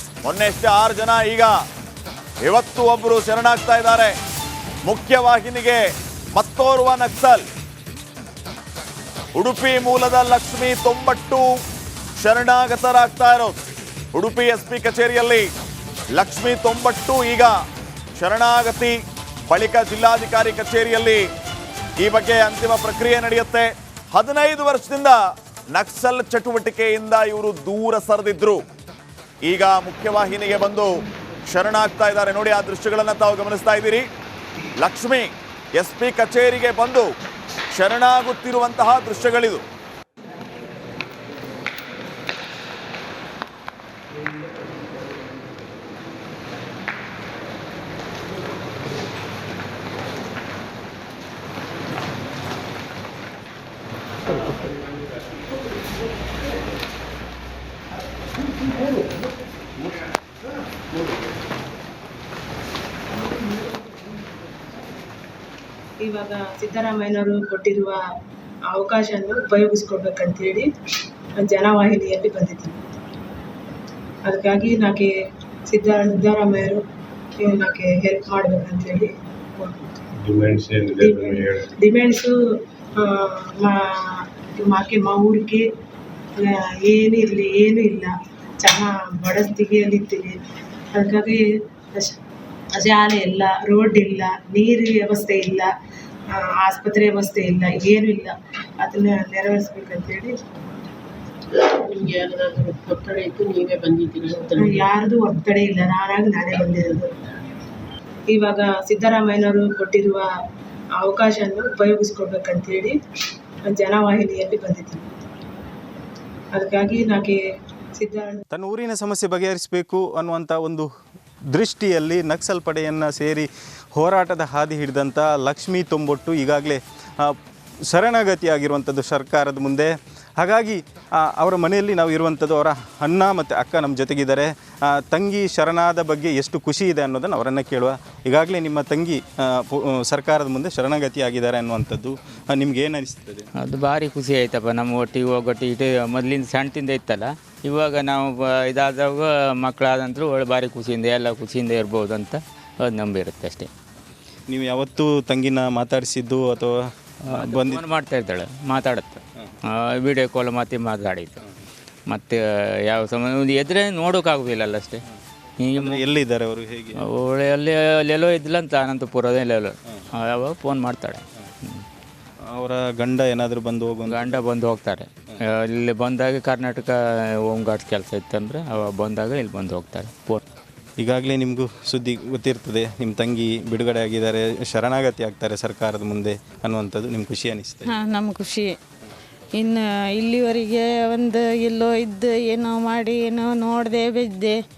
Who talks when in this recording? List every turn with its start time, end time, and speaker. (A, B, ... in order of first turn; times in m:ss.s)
0:00.2-0:01.6 A
0:02.4-0:04.1 A
0:04.8-0:05.8 A
0:06.3-0:07.4 A
0:09.4-0:11.4 A
0:12.2-0:13.6 A
0:14.1-0:15.5 A
0:16.1-0:17.5 A
0:18.2-0:19.0 A
0:19.5-0:21.3 A
0:22.0-0:25.2 A
0:25.7-0:28.6 A
0:29.4-0:30.9 A
0:31.5-0:34.1 A
0:34.8-0:37.1 A
0:37.7-0:39.6 A
1:06.0-1:08.0 B
1:08.7-1:10.7 B
1:11.4-1:12.8 B
1:14.2-1:15.1 B
1:15.7-1:16.8 B
1:17.4-1:20.1 B
1:20.1-1:21.7 C
1:21.0-1:22.4 B
1:23.0-1:25.6 B
1:26.4-1:30.4 B
1:30.9-1:31.4 B
1:32.8-1:35.7 B
1:36.3-1:40.4 B
1:41.9-1:44.8 C
1:44.6-1:47.1 B
1:48.3-1:50.3 B
1:51.0-1:53.0 B
1:53.7-1:55.0 B
1:56.5-1:57.4 B
1:58.0-1:58.4 B
1:58.5-2:00.9 D
2:01.5-2:07.4 D
2:07.9-2:23.5 D
2:23.6-2:33.7 E
2:34.5-2:37.8 D
2:37.3-2:41.4 E
2:42.1-2:45.0 E
2:45.6-2:46.0 E
2:45.8-2:47.1 D
2:47.1-2:51.8 E
2:52.5-2:54.4 D
2:54.1-2:57.0 E
2:57.5-3:00.4 E
3:01.0-3:07.9 D
3:07.9-3:08.7 F
3:09.6-3:14.6 F